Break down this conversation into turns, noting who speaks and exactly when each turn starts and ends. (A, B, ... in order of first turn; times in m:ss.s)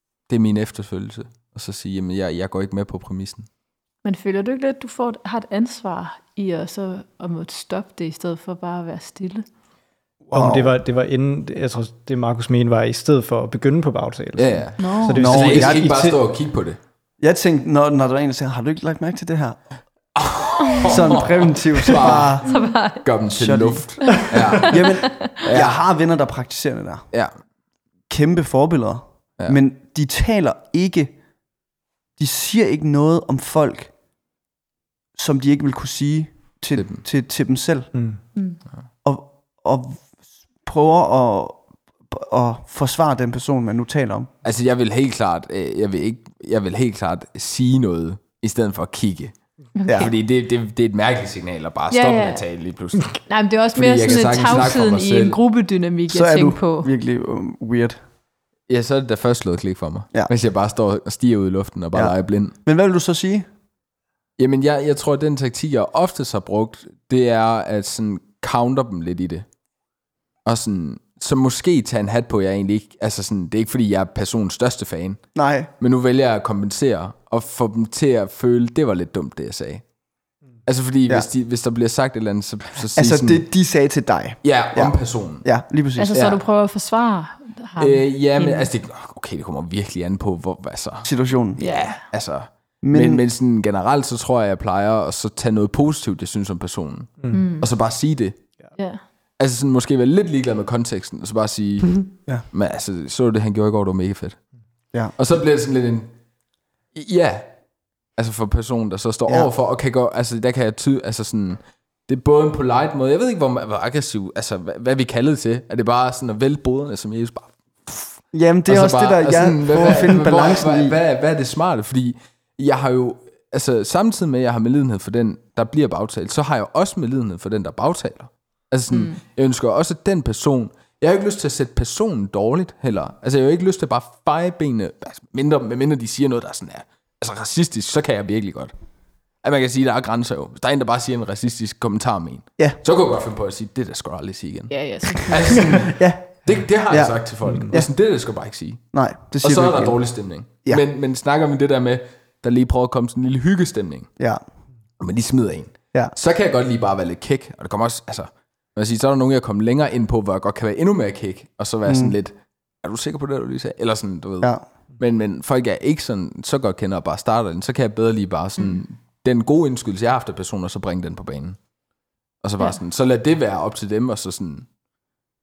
0:00.2-0:03.5 A
0:04.0-0:09.4 B
0:10.2-0:10.8 C
0:10.3-0:16.2 D
0:14.4-0:16.8 A
0:14.8-0:15.2 B
0:15.2-0:15.9 C
0:17.2-0:19.7 C
0:20.2-0:25.8 A
0:20.9-0:22.5 C
0:22.4-0:23.1 B
0:23.3-0:27.1 C
0:24.1-0:25.1 B
0:28.1-0:31.1 C
0:32.2-0:33.9 C
0:35.1-0:38.4 C
0:36.7-0:37.0 A
0:37.9-0:38.2 D
0:38.4-0:38.6 B
0:39.0-0:44.3 C
0:44.4-0:55.4 A
0:49.8-0:50.1 B
0:49.9-0:50.1 C
0:51.9-0:56.9 B
0:56.1-0:58.0 C
0:58.7-1:02.5 A
1:01.9-1:03.5 C
1:04.4-1:09.4 A
1:10.4-1:19.8 A
1:15.3-1:15.7 C
1:20.6-1:23.5 A
1:22.9-1:26.2 C
1:24.4-1:25.5 A
1:25.9-1:28.7 B
1:26.1-1:26.4 A
1:27.8-1:38.4 A
1:31.0-1:31.8 C
1:31.6-1:32.1 B
1:32.8-1:33.2 C
1:37.3-1:37.7 B
1:38.8-1:39.1 B
1:39.1-1:44.6 A
1:45.1-1:46.2 A
1:46.9-2:34.2 A
1:58.3-2:01.0 C
2:08.9-2:09.2 B
2:24.7-2:25.8 B
2:25.9-2:28.1 C
2:27.4-2:27.8 D
2:28.9-2:30.8 C
2:35.0-2:51.6 A
2:41.8-2:42.2 C
2:52.4-2:54.7 A